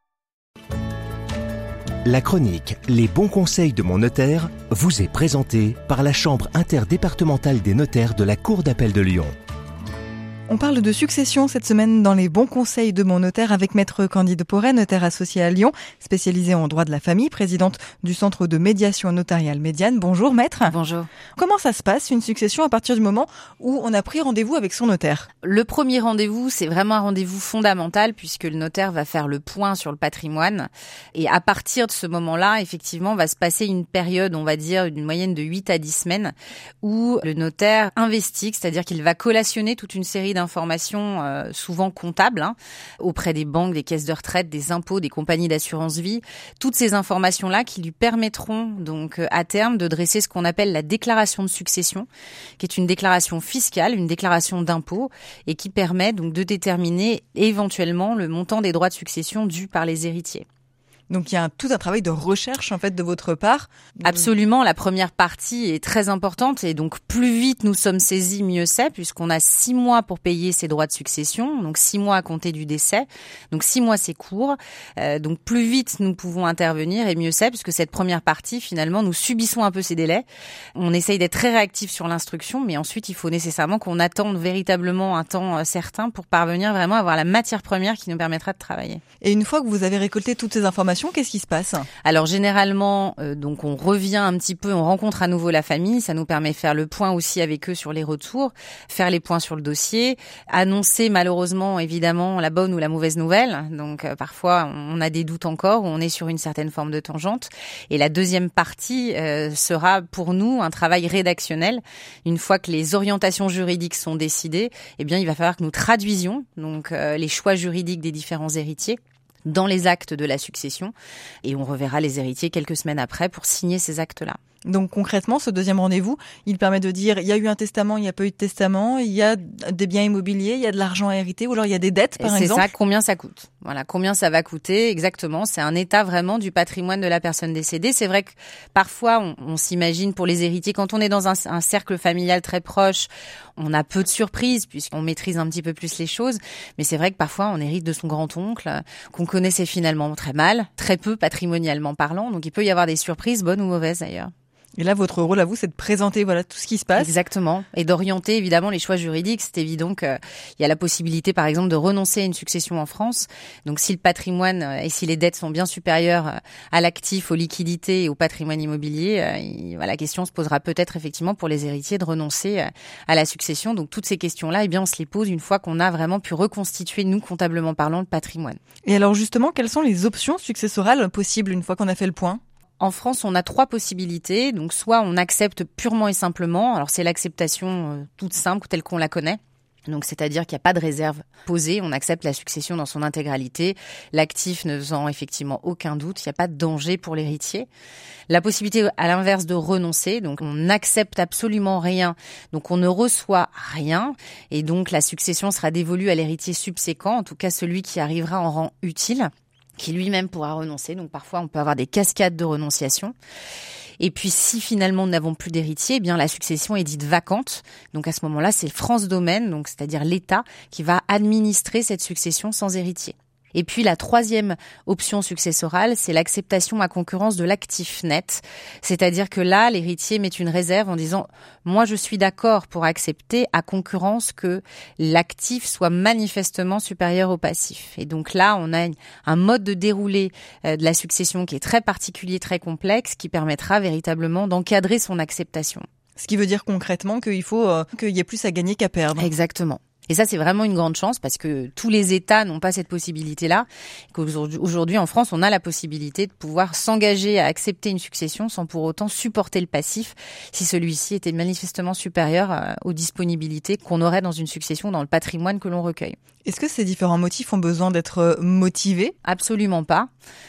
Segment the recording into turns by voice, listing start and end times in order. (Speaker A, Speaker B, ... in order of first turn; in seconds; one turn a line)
Speaker A: 2.0-9.3
Speaker B: 10.5-20.7
Speaker C: 20.7-21.1
Speaker B: 21.4-25.3
Speaker C: 25.4-52.1
Speaker C: 52.6-60.4
Speaker B: 61.1-64.2
Speaker C: 64.0-89.0
Speaker B: 89.2-91.9
Speaker C: 92.0-120.9
Speaker C: 121.4-124.4
Speaker B: 124.6-132.7
Speaker C: 132.2-154.3
Speaker B: 154.8-157.1
Speaker C: 157.0-178.6
Speaker B: 178.8-182.4
Speaker C: 182.8-197.7
Speaker C: 198.3-213.1
Speaker C: 214.0-245.8
Speaker B: 246.2-249.3
Speaker C: 249.2-266.2
Speaker B: 266.4-269.1
Speaker C: 269.2-270.1